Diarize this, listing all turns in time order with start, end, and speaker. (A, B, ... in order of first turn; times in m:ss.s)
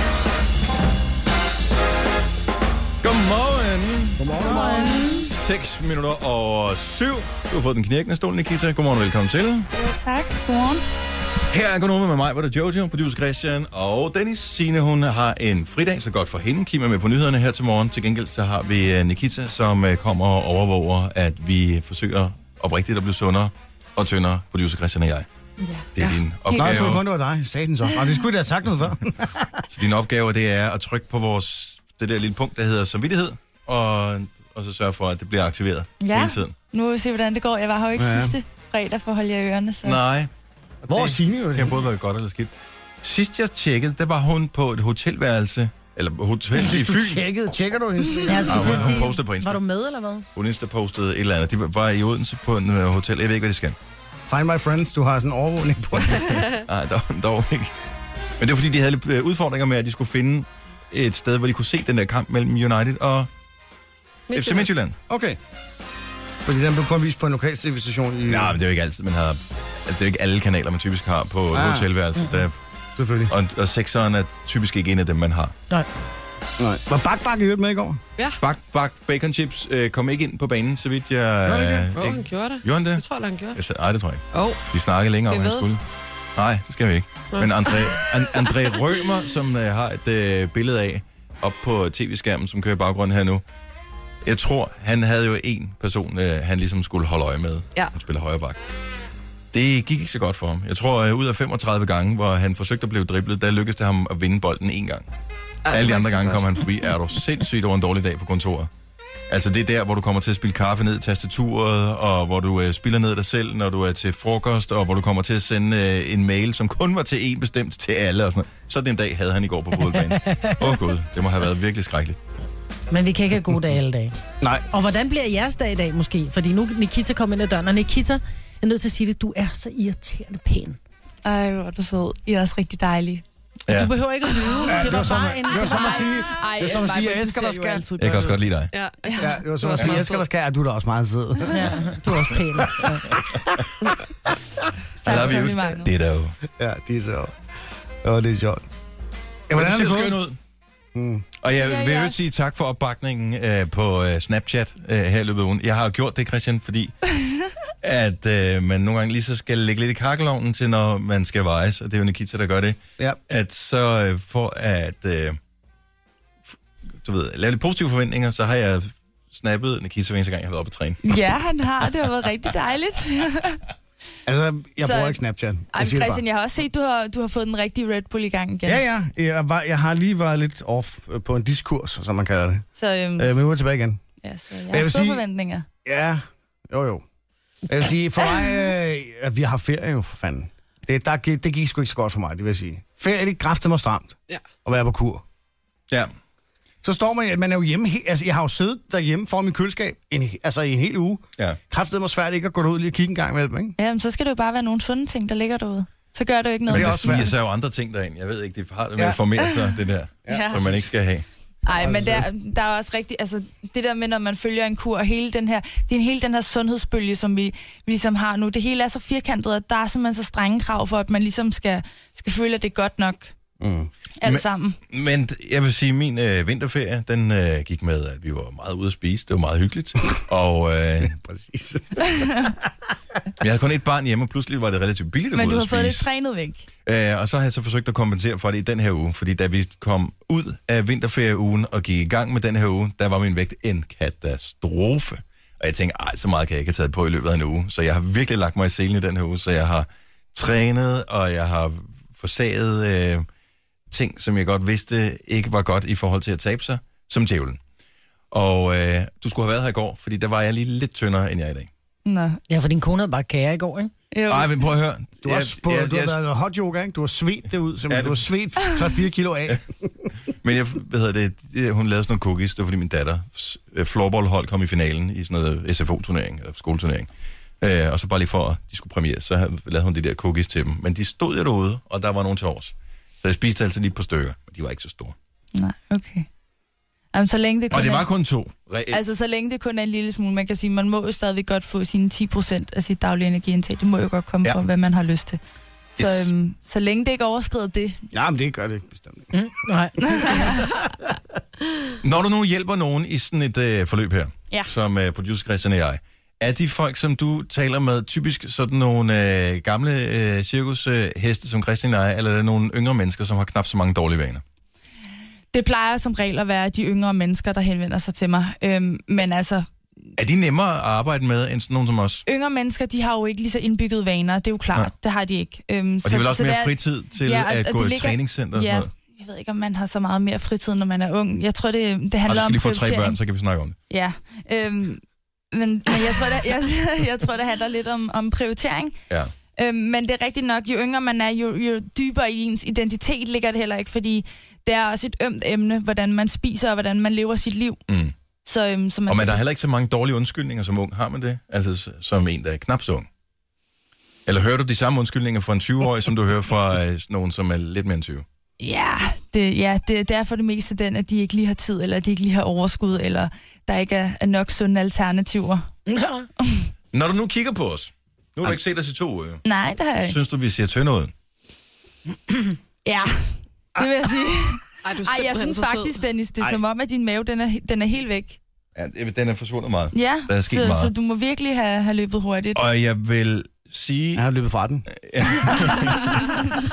0:03.0-0:04.2 A
0:04.2-0:05.0 B
0:04.4-0:05.1 C
0:04.6-0:05.2 D
0:05.0-0:09.7 A
0:09.7-0:10.8 D
0:11.5-0:25.3 A
0:25.6-0:26.9 D
0:25.9-0:27.0 A
0:26.5-0:29.6 B
0:29.7-0:36.5 A
0:36.0-0:40.0 D
0:38.0-0:38.4 B
0:39.8-0:40.3 A
0:40.8-0:47.2 A
0:40.9-0:41.8 B
0:46.5-0:49.0 B
0:48.2-0:50.3 C
0:48.4-0:49.6 A
0:50.3-0:53.8 A
0:54.3-0:56.4 B
0:56.5-0:57.7 A
0:58.4-1:03.3 A
1:04.3-1:04.7 E
1:04.3-1:05.0 A
1:05.1-1:05.4 B
1:06.4-1:08.6 B
1:08.3-1:12.6 A
1:11.5-1:11.9 B
1:13.0-1:13.3 B
1:13.3-1:15.5 A
1:16.6-1:18.0 B
1:18.4-1:25.8 A
1:21.4-1:21.9 B
1:21.9-1:23.6 E
1:24.3-1:24.6 E
1:25.3-1:25.6 E
1:26.4-1:33.4 A
1:27.3-1:28.1 E
1:34.2-1:38.6 A
1:39.5-1:45.1 A
1:45.6-1:46.6 E
1:45.7-1:48.7 A
1:49.3-2:02.2 A
1:59.8-2:00.9 C
2:02.9-2:04.2 C
2:04.7-2:10.8 C
2:11.2-2:13.2 D
2:13.7-2:16.2 C
2:14.6-2:17.8 B
2:15.5-2:18.4 D
2:18.0-2:18.7 A
2:18.7-2:20.2 E
2:19.0-2:19.3 D
2:19.2-2:21.9 B
2:21.5-2:23.2 C
2:22.6-2:22.9 B
2:25.0-2:25.9 D
2:25.0-2:26.4 A
2:26.6-2:27.3 B
2:28.0-2:28.6 B
2:29.5-2:30.2 B
2:29.5-2:30.4 A
2:30.9-2:31.2 B
2:31.4-2:36.9 A
2:31.5-2:32.2 D
2:37.8-2:45.4 A
2:47.0-2:51.1 A
2:51.0-2:53.6 D
2:54.2-2:56.2 B
2:54.8-2:55.2 D
2:55.7-2:58.8 D
2:58.6-3:02.7 B
3:02.8-3:03.4 D
3:03.2-3:04.0 B
3:04.2-3:05.6 D
3:04.7-3:05.2 B
3:05.8-3:07.0 B
3:07.7-3:15.2 B
3:16.8-3:23.8 B
3:23.8-3:27.3 D
3:26.7-3:31.2 A
3:26.7-3:27.3 B
3:29.4-3:29.7 D
3:30.2-3:30.9 B
3:30.3-3:30.8 D
3:31.6-3:43.3 D
3:31.8-3:32.3 B
3:43.6-3:43.9 B
3:44.2-3:44.8 D
3:44.2-3:51.1 A
3:51.0-3:52.4 B
3:52.1-3:52.5 D
3:53.4-3:56.1 A
3:55.3-3:56.6 D
3:56.8-4:13.2 A
4:13.9-4:17.6 A
4:18.3-4:21.7 A
4:22.0-4:22.4 D
4:22.5-4:23.9 C
4:24.1-4:24.5 D
4:24.3-4:26.2 A
4:25.2-4:30.1 B
4:27.9-4:28.3 A
4:30.4-4:37.1 A
4:37.6-4:45.1 A
4:45.5-4:46.3 D
4:47.1-4:48.1 D
4:47.7-4:49.0 A
4:48.9-4:55.4 D
4:56.0-4:58.1 D
4:56.0-4:56.3 A
4:58.1-4:59.3 B
4:59.3-5:00.5 C
5:00.0-5:00.6 D
5:02.0-5:14.4 A
5:15.5-5:19.7 D
5:20.2-5:22.2 A
5:22.2-5:33.2 D
5:26.0-5:28.9 A
5:32.3-5:33.8 A
5:33.9-5:39.0 D
5:39.5-5:47.8 D
5:47.9-5:48.1 A
5:48.4-5:49.4 D
5:49.1-5:53.1 A
5:54.2-5:58.2 A
5:58.6-6:05.7 D
6:05.9-6:06.3 C
6:06.9-6:09.4 A
6:09.4-6:10.2 D
6:10.0-6:11.1 A
6:12.8-6:18.4 D
6:14.8-6:16.0 E
6:18.8-6:20.9 A
6:19.9-6:22.6 D
6:22.5-6:24.2 A
6:24.1-6:24.9 B
6:24.9-6:26.3 A